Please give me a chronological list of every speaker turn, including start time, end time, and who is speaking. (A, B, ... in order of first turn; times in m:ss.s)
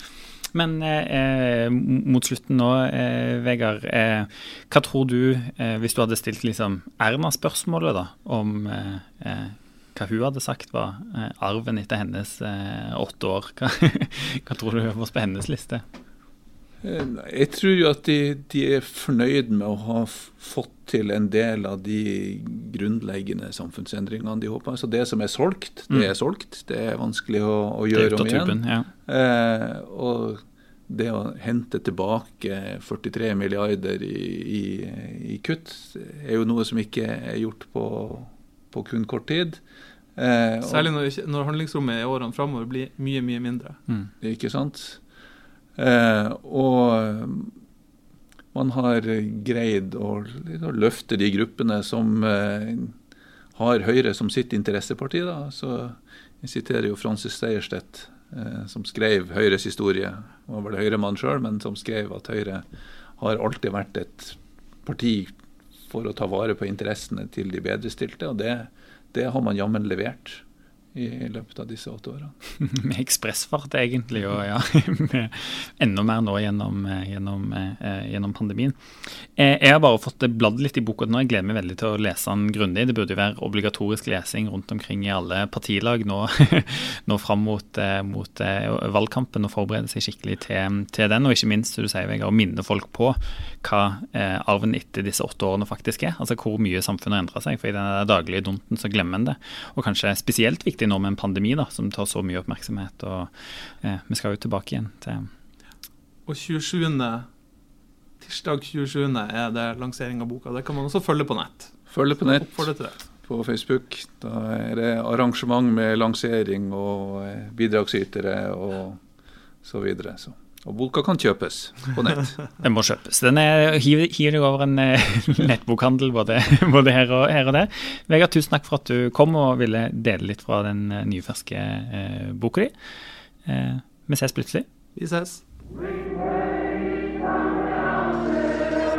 0:00.5-0:15.8 A
0:16.8-0:39.6 B
0:27.9-0:28.9 A
0:40.2-0:40.9 B
0:40.6-0:43.8 C
0:44.2-0:45.0 B
0:45.8-0:47.6 B
0:48.5-0:53.0 B
0:53.6-1:02.6 B
1:03.2-1:05.3 B
1:05.9-1:12.3 B
1:12.6-1:45.3 A
1:46.3-1:47.3 C
1:48.2-1:53.0 C
1:51.9-1:52.7 B
1:53.2-1:59.0 B
1:59.6-2:02.4 B
2:02.6-2:14.7 A
2:15.0-2:15.4 C